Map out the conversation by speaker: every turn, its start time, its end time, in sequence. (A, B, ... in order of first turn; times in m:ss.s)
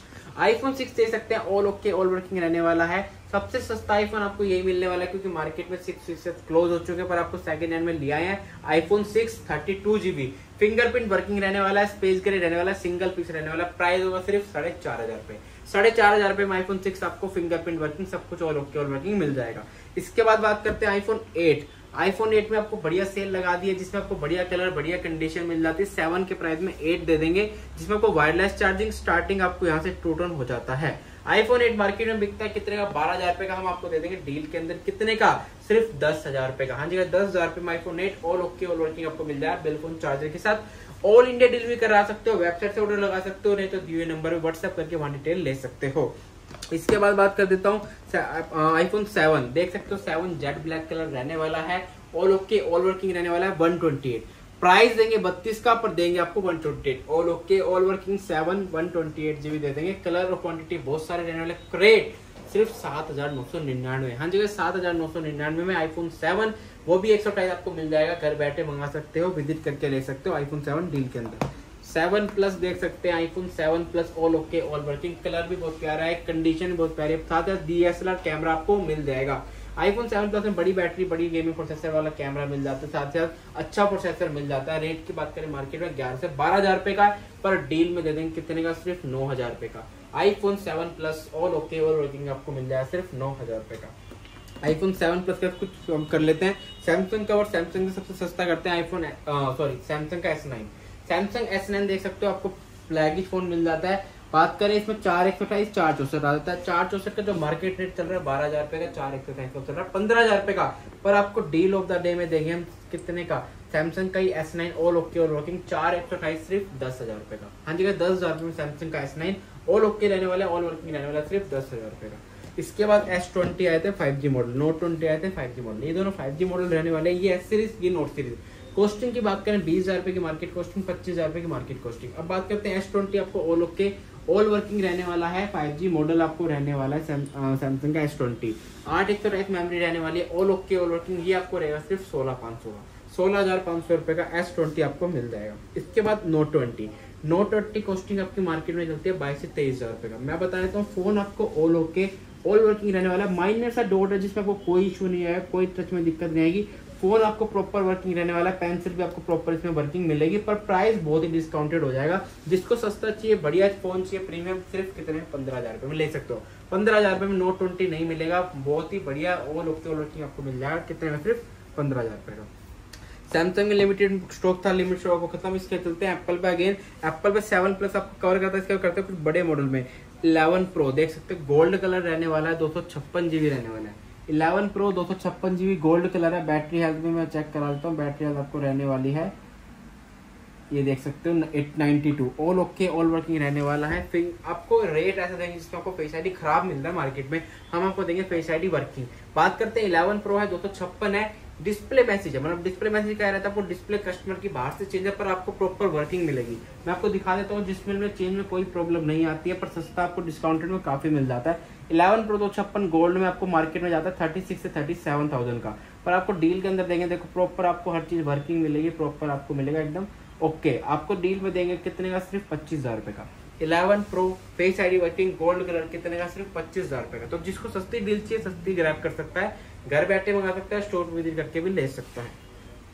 0:00.4-0:46.1 A
0:46.7-1:34.0 A
1:34.6-2:52.5 A
2:53.3-3:09.3 A
3:10.7-3:52.4 A